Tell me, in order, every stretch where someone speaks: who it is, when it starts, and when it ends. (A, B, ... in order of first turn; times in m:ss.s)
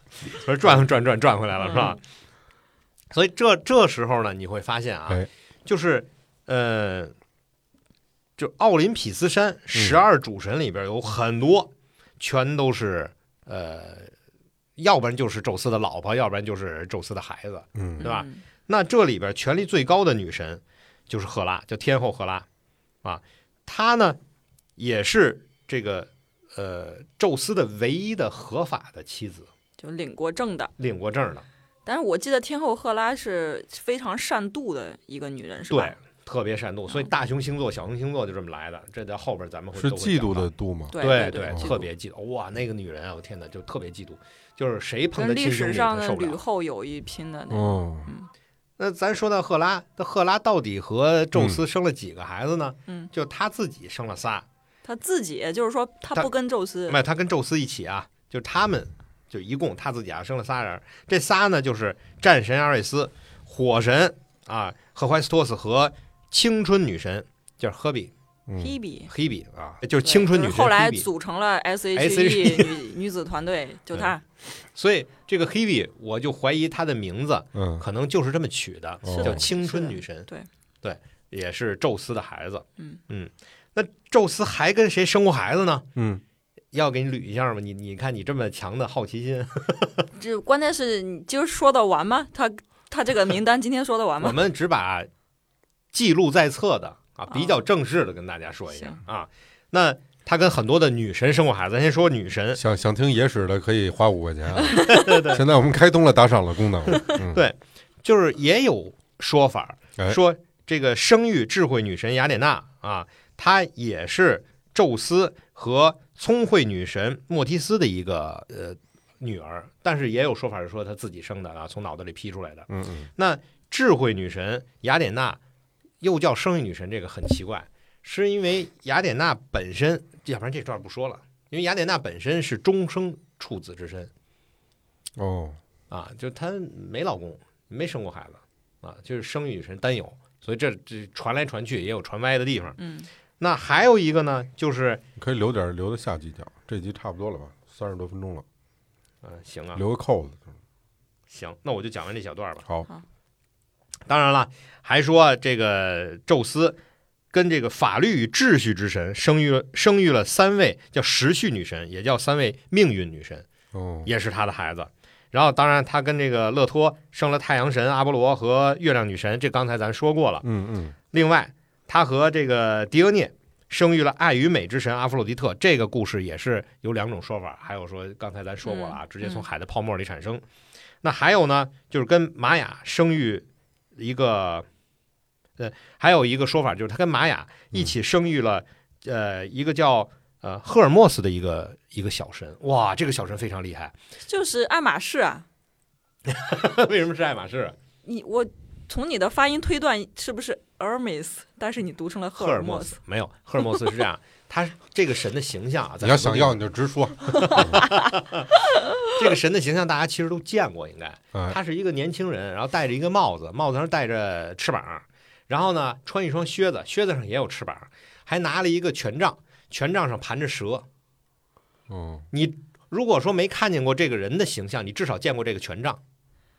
0:00.3-0:02.0 A
0:01.6-0:01.9 B
0:03.1-0:07.1 A
0:08.4-0:14.1 A
0:09.7-0:10.0 C
0:14.8-0:22.4 A
0:17.7-0:18.1 C
0:18.0-0:18.4 B
0:23.0-0:24.2 A
0:24.8-0:29.5 A
0:29.8-0:30.7 B
0:30.8-0:31.4 A
0:31.8-0:35.9 B
0:35.7-0:40.5 A
0:39.8-0:41.8 C
0:40.9-0:41.8 B
0:41.0-0:46.4 A
0:45.2-0:48.3 B
0:47.5-0:48.1 C
0:48.8-0:54.4 A
0:51.3-0:51.6 C
0:54.8-0:57.0 B
0:56.9-1:08.1 A
1:08.5-1:08.8 C
1:08.6-1:09.1 B
1:09.1-1:11.1 A
1:10.0-1:14.2 B
1:11.9-1:12.8 A
1:14.7-1:20.3 A
1:17.5-1:17.8 C
1:19.0-1:19.4 C
1:19.1-1:20.5 B
1:20.8-1:25.9 A
1:26.0-1:26.2 C
1:26.7-1:30.1 A
1:30.1-1:34.4 B
1:34.2-1:35.1 A
1:35.9-1:42.6 A
1:37.3-1:37.6 B
1:38.7-1:39.0 B
1:42.5-1:47.4 C
1:44.8-1:45.4 A
1:47.1-2:05.4 A
2:02.7-2:03.1 C
2:06.0-2:14.1 A
2:15.2-2:15.6 C
2:15.9-2:22.8 A
2:22.8-2:23.1 B
2:23.4-2:25.0 A
2:25.2-2:28.4 C
2:29.2-2:29.8 A
2:29.7-2:30.5 C
2:31.3-2:32.6 A
2:34.1-2:36.8 A
2:37.3-2:43.4 A
2:43.7-2:44.1 C
2:44.0-2:50.4 A
2:50.4-2:51.0 C
2:51.1-3:00.4 A
2:58.6-2:59.4 B
3:01.0-3:04.6 A
3:05.6-3:13.9 A
3:14.3-3:15.4 B
3:16.3-3:17.7 A
3:18.0-3:23.0 B
3:22.4-3:26.6 A
3:26.0-3:27.9 C
3:27.3-3:28.5 A
3:27.6-3:27.9 B
3:29.0-3:40.8 A
3:41.9-3:42.2 C
3:42.3-3:46.0 A